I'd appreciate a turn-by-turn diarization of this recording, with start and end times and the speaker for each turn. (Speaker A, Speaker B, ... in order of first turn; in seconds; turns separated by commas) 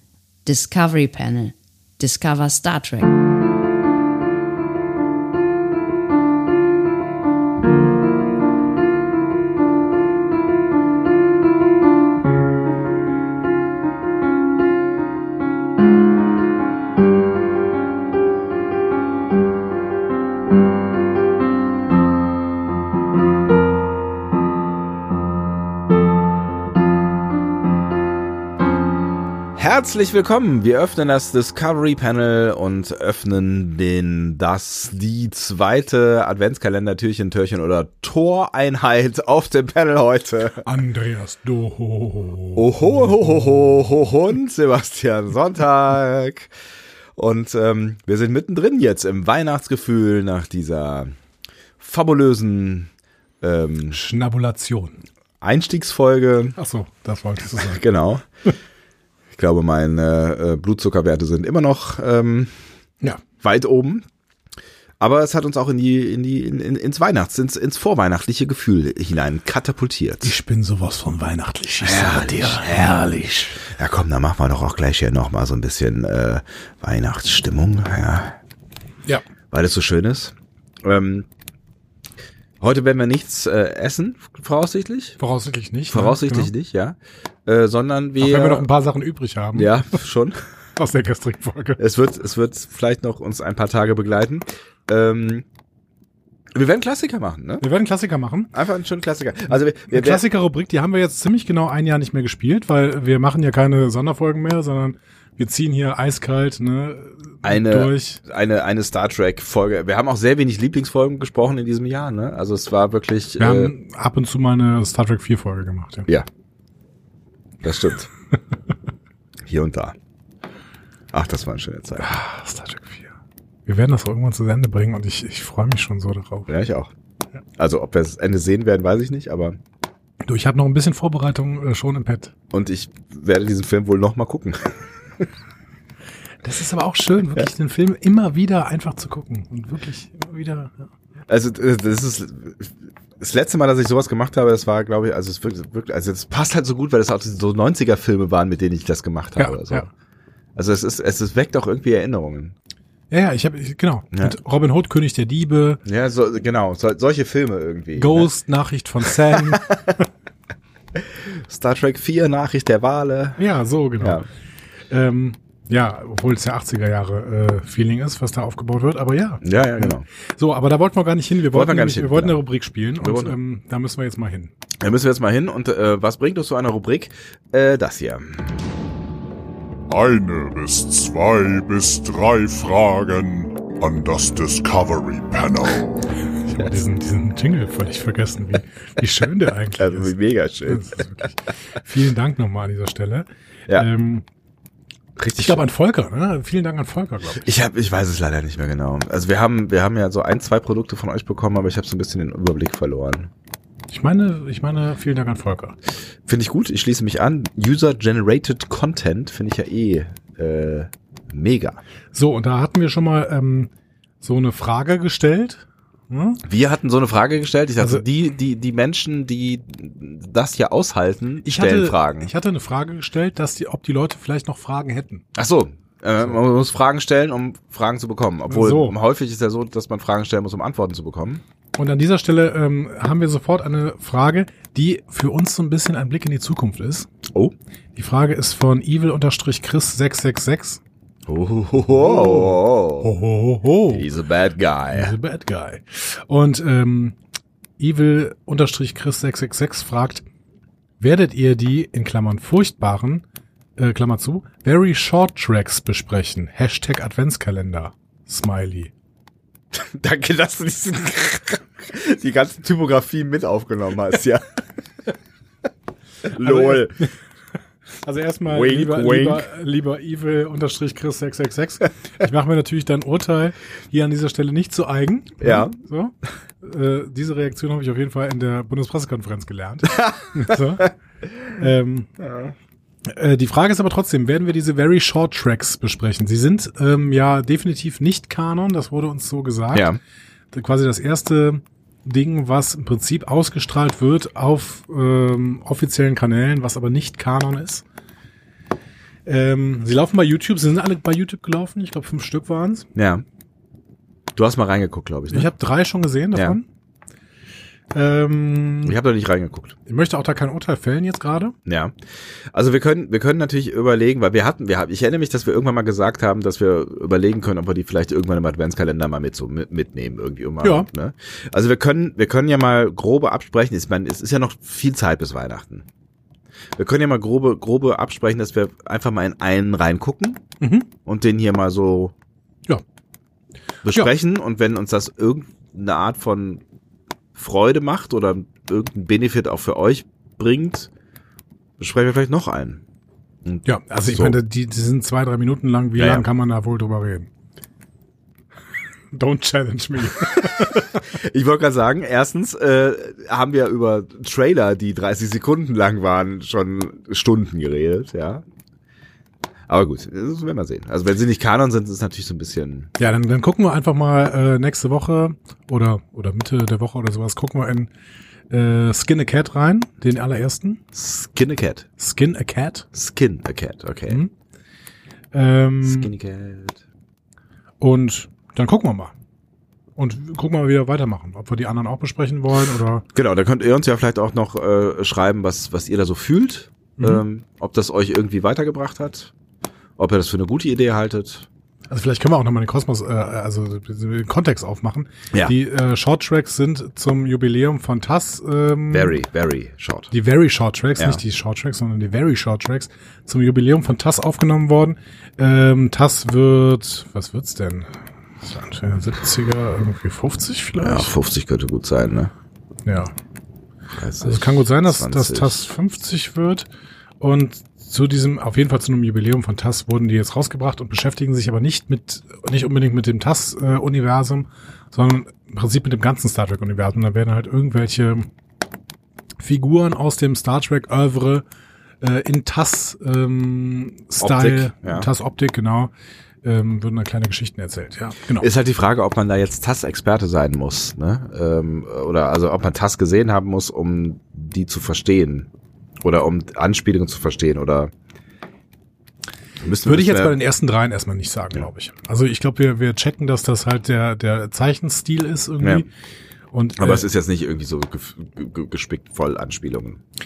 Speaker A: 0.5-3.1, Speaker B: 29.6-40.6, Speaker C: 40.6-43.5, Speaker B: 42.6-46.5, Speaker B: 47.2-51.1, Speaker B: 51.8-52.9, Speaker B: 53.4-54.0, Speaker C: 53.9-55.0, Speaker B: 55.4-56.6, Speaker C: 56.6-57.8, Speaker B: 57.6-58.2, Speaker B: 59.3-62.5, Speaker B: 63.4-64.0, Speaker B: 65.0-70.3, Speaker C: 70.2-73.7, Speaker B: 71.8-73.1, Speaker B: 73.7-78.4, Speaker B: 79.5-81.3, Speaker B: 82.6-85.2, Speaker C: 85.2-86.5, Speaker B: 85.9-88.7, Speaker C: 88.2-89.8, Speaker B: 89.5-90.4, Speaker C: 90.8-91.8, Speaker B: 91.8-95.5, Speaker B: 96.5-97.7, Speaker C: 97.6-98.5, Speaker B: 98.5-100.2, Speaker C: 99.8-108.2, Speaker B: 107.4-113.7, Speaker C: 113.4-116.1, Speaker B: 117.6-118.1, Speaker B: 119.5-120.0, Speaker B: 121.1-122.1, Speaker C: 122.0-123.1, Speaker C: 123.7-126.5, Speaker B: 126.5-126.9, Speaker B: 127.6-129.6, Speaker C: 130.2-132.3, Speaker B: 132.5-134.9, Speaker C: 136.4-140.9, Speaker B: 141.3-149.9, Speaker C: 149.4-149.9, Speaker B: 150.6-152.6, Speaker C: 153.1-155.8, Speaker B: 155.9-158.3, Speaker C: 158.0-160.0, Speaker B: 161.3-163.4, Speaker C: 163.4-164.2, Speaker B: 164.0-164.3, Speaker C: 164.9-174.5, Speaker B: 169.4-170.1, Speaker B: 171.5-172.4, Speaker B: 173.0-173.4, Speaker B: 174.8-178.7, Speaker D: 179.9-186.1, Speaker C: 186.3-190.1, Speaker B: 189.8-191.1, Speaker C: 190.7-194.3, Speaker B: 195.2-195.6, Speaker C: 195.4-197.4, Speaker B: 197.3-203.3, Speaker C: 203.9-205.8, Speaker B: 206.3-211.8, Speaker C: 212.1-213.7, Speaker C: 214.2-216.4, Speaker B: 216.4-222.3, Speaker C: 217.8-218.1, Speaker C: 221.4-225.2, Speaker B: 225.3-231.4, Speaker C: 228.5-229.0, Speaker C: 231.8-237.1, Speaker C: 237.9-240.8, Speaker B: 241.3-243.1, Speaker C: 241.9-244.1, Speaker B: 243.9-245.2, Speaker C: 244.9-247.2, Speaker C: 247.8-250.2, Speaker C: 251.0-253.2, Speaker C: 253.8-258.9, Speaker B: 259.7-264.4, Speaker B: 266.2-267.0, Speaker C: 266.4-267.1, Speaker C: 268.0-280.9, Speaker B: 268.4-269.5, Speaker B: 275.4-275.8, Speaker C: 281.5-282.1, Speaker C: 283.1-289.9, Speaker C: 290.5-297.8, Speaker C: 299.3-302.9, Speaker B: 302.9-303.2, Speaker B: 304.4-305.5, Speaker C: 305.3-306.7, Speaker B: 306.3-306.6, Speaker C: 307.9-309.0, Speaker B: 308.9-309.8, Speaker C: 309.9-311.6, Speaker B: 311.7-311.9, Speaker B: 312.5-325.9, Speaker C: 320.6-320.9, Speaker B: 326.8-330.4, Speaker C: 330.6-330.9, Speaker B: 331.1-332.1, Speaker B: 333.8-336.6, Speaker B: 337.4-340.9, Speaker B: 341.8-342.8, Speaker B: 343.5-344.4, Speaker C: 343.6-347.3, Speaker B: 346.0-346.3, Speaker C: 349.1-351.1, Speaker B: 350.9-358.5, Speaker B: 359.7-362.9, Speaker C: 363.0-367.9, Speaker C: 368.5-370.8, Speaker B: 370.9-371.9, Speaker C: 372.0-372.9, Speaker B: 372.9-374.2, Speaker C: 375.3-376.1, Speaker B: 375.8-376.8, Speaker C: 377.8-379.1, Speaker C: 380.0-383.1, Speaker B: 383.1-389.3, Speaker C: 387.0-387.2, Speaker B: 390.0-391.5, Speaker C: 391.9-399.2, Speaker B: 398.9-400.1, Speaker C: 400.1-411.1, Speaker B: 410.8-412.3, Speaker C: 412.9-413.1, Speaker B: 413.9-415.7, Speaker C: 414.2-416.7, Speaker C: 417.2-428.3, Speaker C: 429.4-431.4, Speaker C: 432.0-435.9, Speaker B: 434.2-435.1, Speaker C: 436.4-438.5, Speaker B: 438.3-445.5, Speaker B: 446.0-447.9, Speaker B: 449.6-450.4, Speaker C: 449.8-455.9, Speaker B: 455.6-455.9, Speaker C: 456.5-457.1, Speaker B: 456.8-460.0